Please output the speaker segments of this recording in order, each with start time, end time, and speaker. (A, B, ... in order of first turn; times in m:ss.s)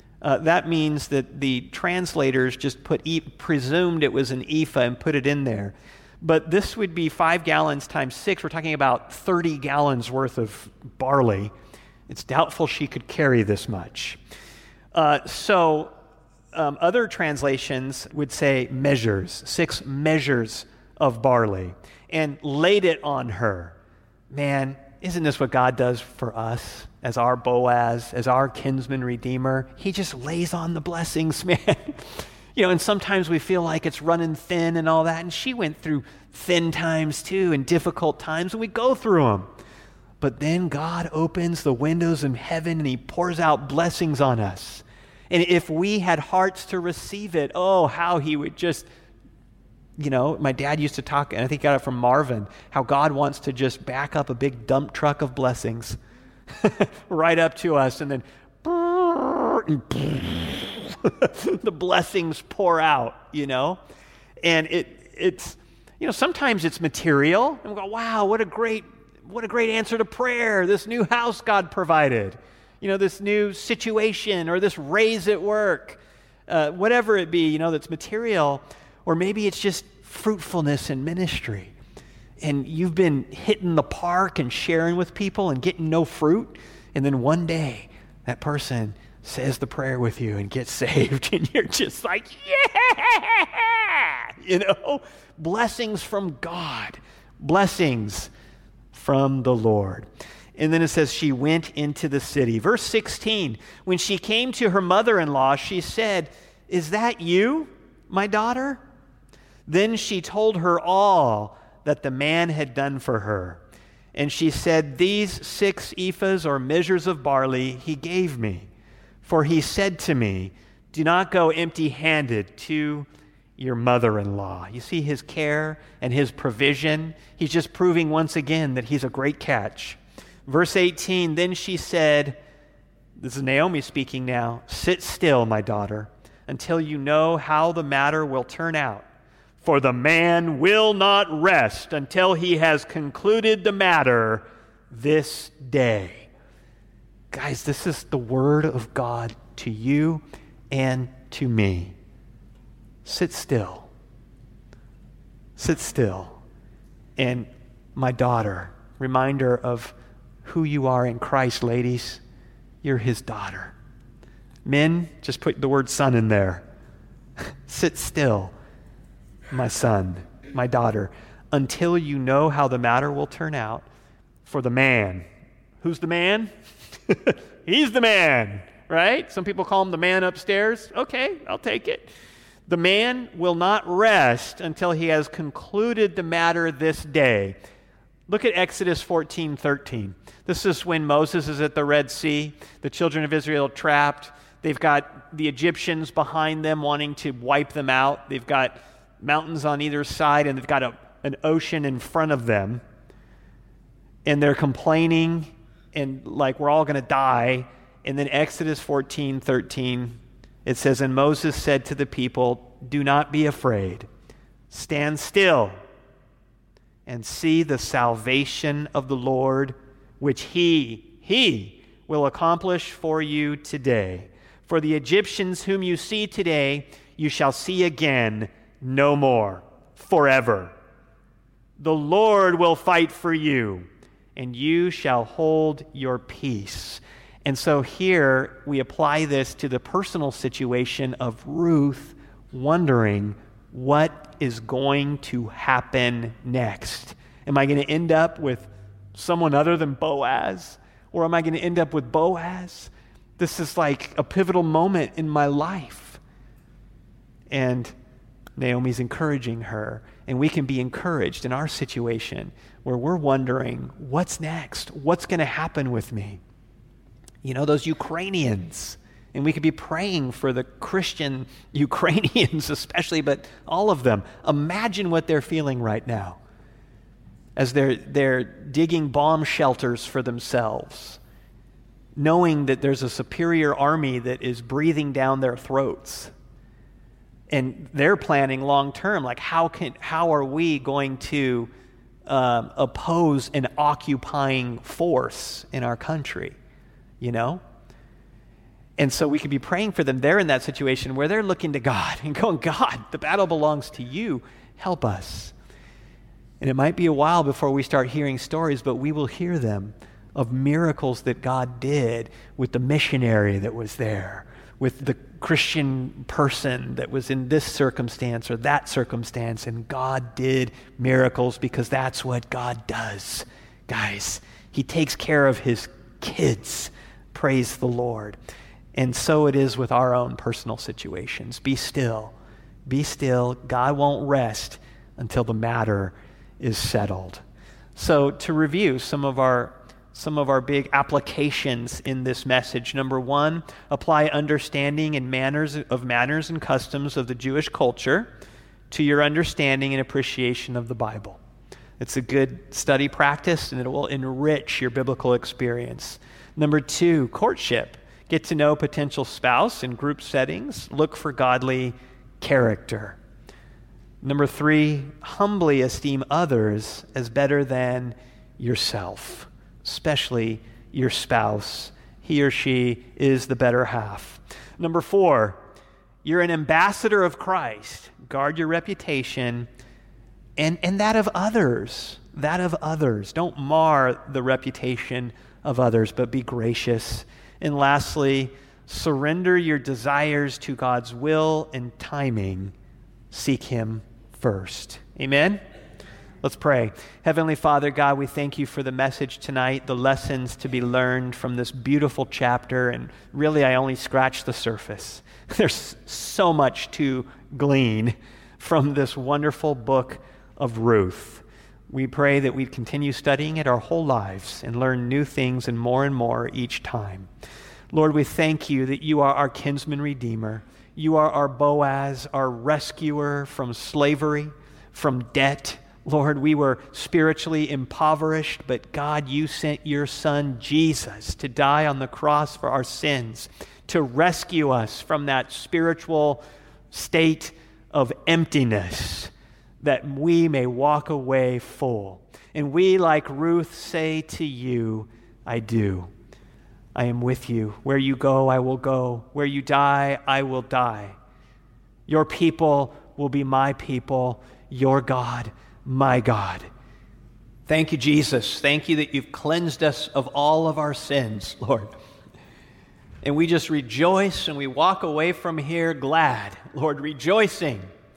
0:00.2-0:11.5 A
0:12.1-0:14.2 A
0:14.9-0:15.9 A
0:16.5-0:23.8 A
0:24.3-0:39.5 A
0:40.2-0:48.9 A
0:50.0-0:56.0 A
0:56.6-1:03.8 A
1:04.4-1:21.7 A
1:22.4-1:38.3 A
1:38.9-1:48.8 A
1:49.7-1:53.6 A
1:54.1-1:58.7 A
1:59.2-2:03.1 A
2:03.6-2:12.4 A
2:13.2-2:19.0 A
2:19.6-2:26.3 A
2:27.3-2:31.9 A
2:33.0-2:33.9 A
2:35.6-2:36.4 A
2:37.2-2:42.2 A
2:42.8-2:43.7 A
2:44.6-2:46.6 A
2:47.6-2:48.5 A
2:49.5-2:53.8 A
2:54.4-2:55.2 A
2:55.8-2:56.5 A
2:57.1-3:02.1 A
3:02.7-3:07.6 A
3:08.3-3:22.8 A
3:24.2-3:34.1 A
3:34.7-3:35.8 A
3:37.0-3:50.7 A
3:51.8-4:16.2 A
4:17.5-4:17.9 A
4:18.6-4:26.4 A
4:27.4-4:36.4 A
4:37.6-4:41.2 A
4:42.2-4:46.3 A
4:47.5-4:51.7 A
4:52.3-4:56.6 A
4:57.2-4:57.6 A
4:59.0-5:05.5 A
5:06.6-5:28.4 A
5:28.9-5:32.3 A
5:32.8-5:37.4 A
5:38.0-5:48.3 A
5:48.9-5:51.4 A
5:52.0-6:03.2 A
6:04.2-6:15.6 A
6:16.2-6:19.7 A
6:20.6-6:32.7 A
6:33.3-6:35.6 A
6:36.4-6:57.3 A
6:57.9-7:26.1 A
7:26.9-7:31.1 A
7:32.1-7:36.7 A
7:37.7-7:41.9 A
7:43.2-7:47.9 A